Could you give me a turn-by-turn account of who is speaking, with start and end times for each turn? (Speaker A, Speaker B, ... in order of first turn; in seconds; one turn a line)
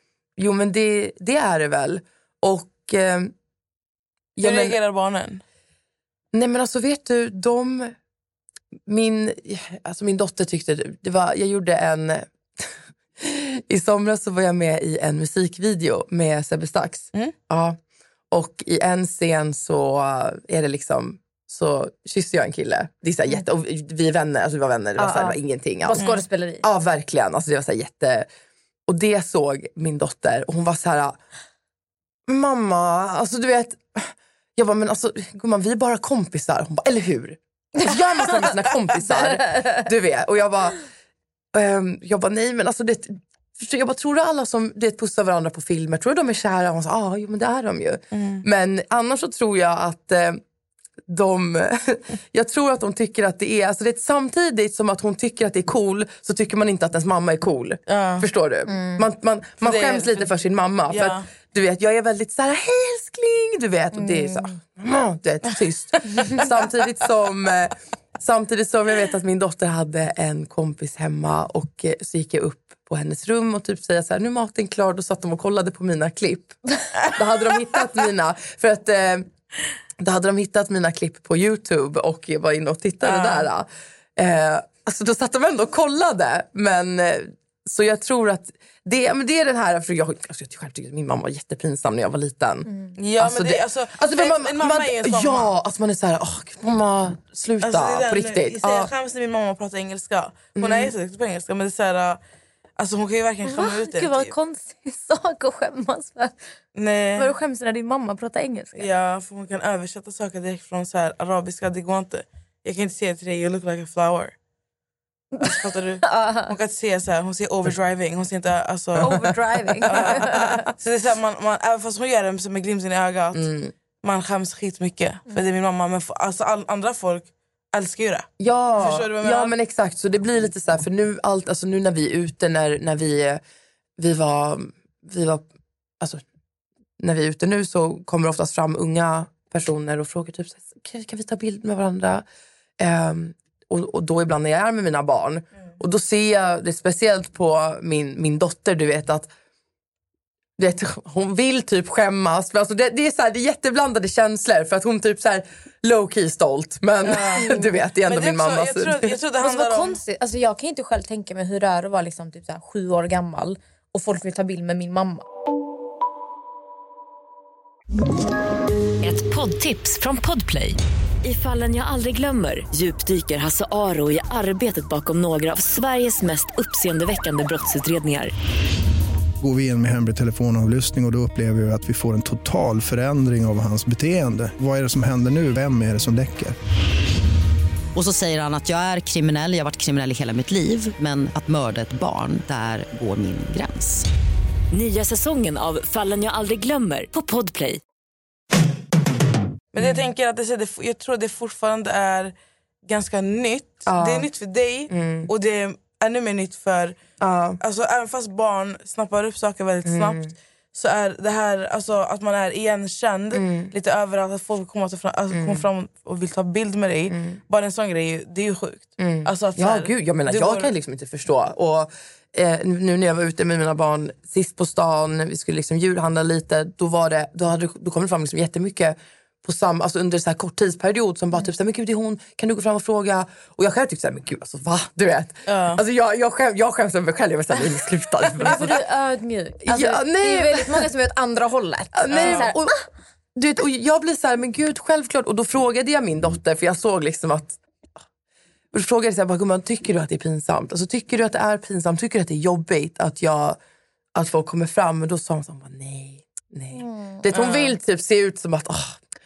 Speaker A: 0.4-3.3
Speaker A: 4.4-4.8
Speaker B: 4.4-5.4
Speaker A: 6.3-7.9
Speaker A: 8.9-17.8
Speaker A: 18.3-26.0
Speaker C: 25.0-26.6
Speaker A: 26.6-28.3
Speaker A: 28.9-31.2
Speaker A: 32.3-40.8
Speaker C: 39.3-39.9
Speaker A: 41.5-50.4
Speaker B: 48.1-48.5
Speaker A: 51.1-79.3
Speaker B: 57.9-58.3
Speaker C: 58.7-59.0
Speaker B: 59.6-60.3
Speaker B: 60.9-61.3
Speaker C: 63.9-64.6
Speaker A: 80.0-98.9
Speaker B: 83.0-83.5
Speaker C: 92.7-92.9
Speaker B: 93.0-95.5
Speaker B: 97.6-102.2
Speaker A: 100.6-100.9
Speaker B: 102.8-104.3
Speaker C: 103.5-106.3
Speaker B: 106.8-107.3
Speaker C: 107.2-108.8
Speaker B: 108.8-114.3
Speaker C: 115.4-116.5
Speaker B: 115.4-119.1
Speaker A: 119.0-120.7
Speaker C: 119.0-120.7
Speaker B: 119.9-123.5
Speaker A: 123.3-123.7
Speaker B: 124.0-129.5
Speaker A: 128.4-133.4
Speaker A: 134.0-135.5
Speaker A: 137.0-142.2
Speaker A: 142.8-149.3
Speaker A: 150.6-159.1
Speaker B: 157.0-157.5
Speaker C: 157.4-157.8
Speaker B: 158.0-160.0
Speaker C: 159.4-165.2
Speaker D: 169.0-178.3
Speaker E: 179.4-186.6
Speaker F: 187.9-194.1
Speaker D: 194.7-197.8
Speaker B: 199.7-207.0
Speaker A: 203.9-204.3
Speaker A: 204.9-205.3
Speaker A: 207.2-207.6
Speaker B: 207.6-210.2
Speaker A: 209.8-210.3
Speaker B: 210.7-220.7
Speaker A: 213.3-213.7
Speaker A: 215.3-215.7
Speaker A: 217.1-217.4
Speaker A: 219.0-238.8
Speaker B: 235.5-235.8
Speaker C: 238.4-242.8
Speaker A: 239.6-240.9
Speaker A: 241.9-242.8
Speaker B: 242.1-242.5
Speaker A: 243.3-247.6
Speaker A: 248.7-253.6
Speaker A: 254.2-259.0
Speaker C: 256.7-257.2
Speaker B: 257.3-257.8